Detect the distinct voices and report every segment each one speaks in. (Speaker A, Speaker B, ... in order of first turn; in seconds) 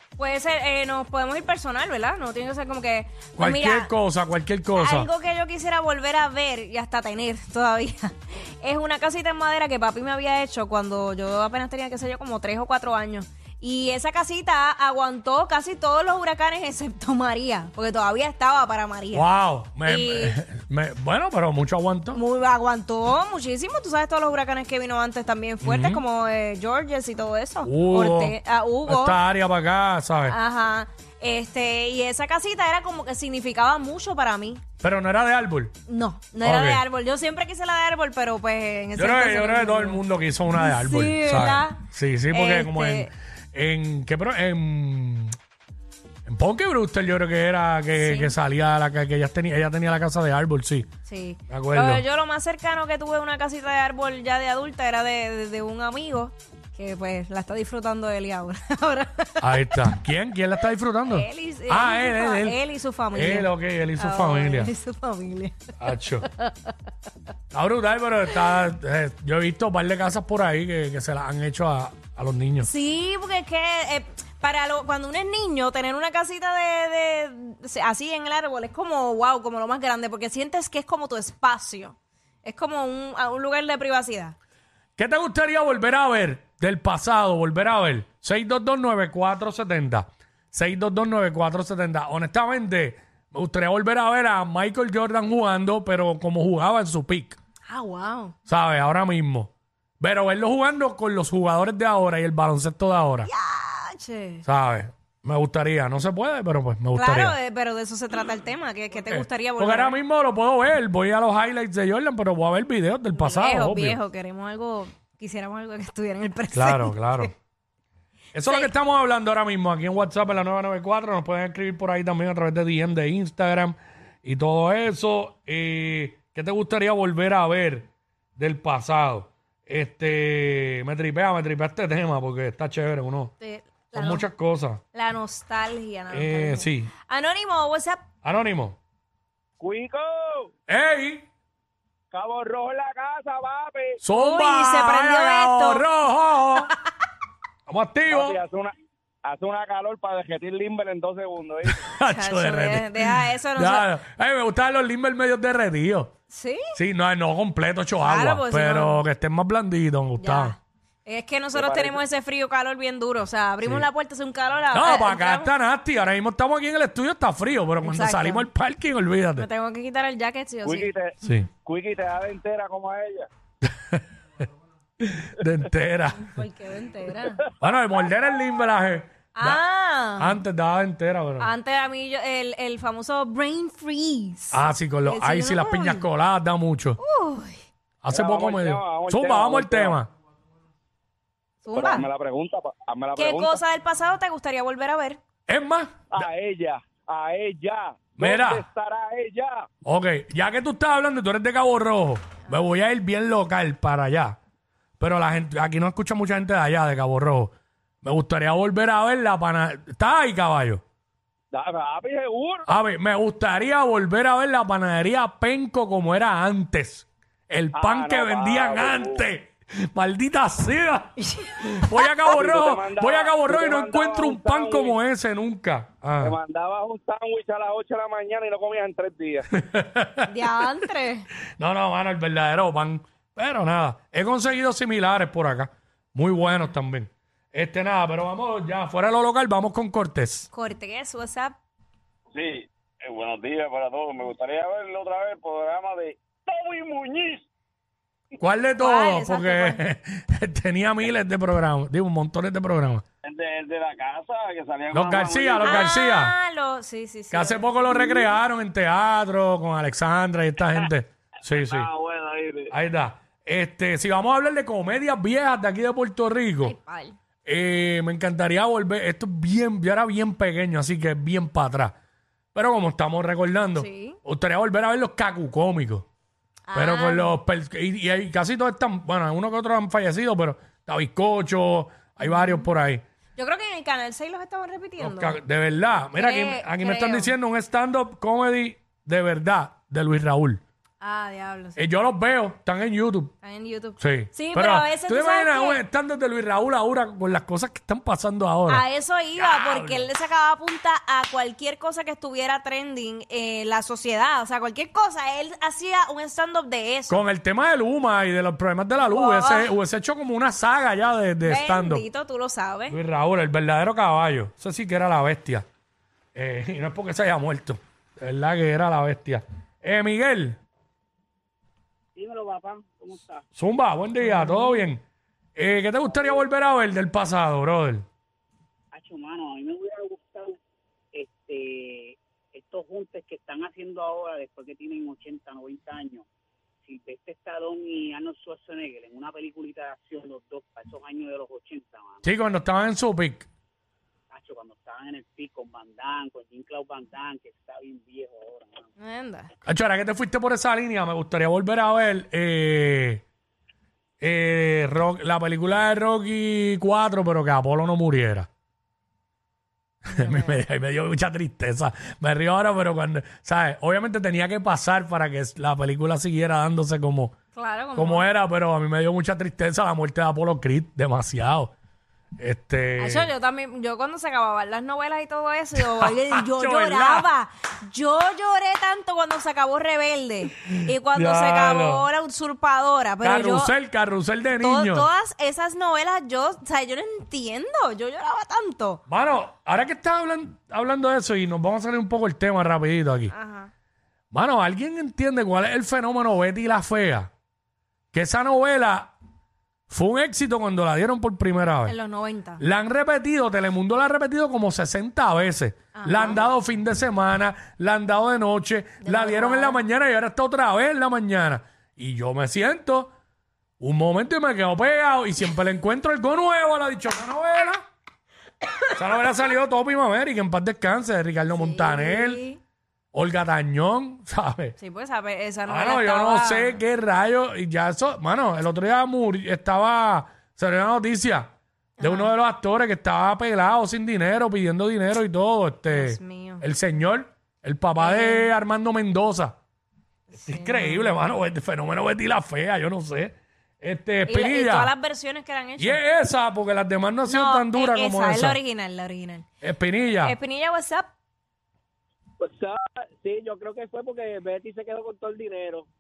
Speaker A: 0.2-3.9, 4.8-19.3, 19.9-20.4, 22.1-29.2, 30.2-34.6, 35.9-43.1, 48.0-48.4, 51.0-59.9, 61.1-65.6, 66.2-66.7, 72.6-84.3, 97.7-98.3, 103.3-104.5, 106.9-110.0, 113.2-117.3, 118.5-118.7, 133.4-134.3, 134.9-138.0, 144.1-145.8, 152.1-153.9, 156.3-156.8, 158.0-159.0, 160.2-165.5, 167.8-168.5, 169.4-170.9, 176.2-177.4, 179.3-180.4, 181.4-186.1, 187.0-187.6, 191.6-192.1, 193.2-195.2, 221.4-222.1, 230.3-231.3, 240.5-241.6, 248.8-249.8, 255.6-258.2, 266.6-267.2, 273.7-274.2, 276.7-277.4, 282.2-282.7, 283.4-285.4, 286.1-287.3, 291.0-291.8, 293.4-295.8, 298.7-307.2, 309.0-309.7, 311.4-313.0, 349.0-349.5, 360.1-360.6, 367.5-368.3, 373.0-383.7, 384.6-389.0, 393.3-393.7, 401.9-402.6, 405.9-406.5, 409.0-409.8, 421.5-422.6, 424.8-426.8, 432.0-432.3, 435.9-436.6, 438.0-438.5, 440.3-441.1, 444.2-446.0, 447.3-449.5, 450.2-451.1
Speaker B: 3.4-5.1, 19.1-22.2, 25.6-26.0, 27.7-30.4, 34.8-35.7, 36.4-36.8, 39.0-45.3, 46.3-50.9, 51.5-52.0, 59.4-62.6, 63.1-64.7, 65.8-66.3, 67.5-72.7, 85.0-97.4, 98.5-103.3, 104.5-107.4, 109.1-114.0, 116.5-117.3, 118.3-133.3, 133.9-134.8, 136.1-136.9, 138.2-138.8, 140.7-141.3, 144.0-146.7, 147.7-148.4, 151.7-156.1, 156.8-160.6, 163.6-163.9, 164.7-169.5, 171.2-171.5, 173.6-174.0, 175.0-176.4, 177.6-179.6, 180.2-181.5, 184.5-187.0, 188.0-190.1, 195.5-196.3, 198.2-198.7, 199.8-204.4, 205.0-210.8, 212.7-226.4, 229.6-230.6, 231.6-240.5, 248.4-253.0, 254.9-256.4, 257.3-261.9, 262.7-266.8, 267.4-271.9, 272.5-276.1, 276.7-283.0, 285.0-290.6, 291.8-293.3, 294.0-298.9, 299.4-300.1, 307.1-312.1, 312.9-315.6, 316.4-320.6, 323.6-325.0, 325.6-328.1, 342.2-343.5, 349.6-353.2, 354.2-358.5, 360.1-367.4, 367.9-371.7, 372.4-373.3, 375.8-377.3, 381.1-382.1, 383.2-385.1, 389.1-393.3, 394.3-397.3, 398.1-399.1, 399.9-401.9, 402.6-413.1, 413.8-417.8, 419.0-422.4, 423.1-424.8, 425.7-439.6, 440.4-444.9, 445.8-448.6, 449.6-450.4
Speaker C: 139.6-140.5, 142.1-144.0, 148.1-148.7, 149.2-151.9, 161.5-162.0, 170.6-173.3, 188.1-190.0, 191.7-193.6, 196.1-199.7, 211.5-212.7, 217.8-219.2, 222.2-225.0, 226.2-229.5, 242.3-247.4, 253.2-255.9, 261.5-262.7, 452.4-455.9
Speaker D: 322.2-323.4, 328.9-330.6, 331.1-336.3, 336.8-342.2, 344.3-348.9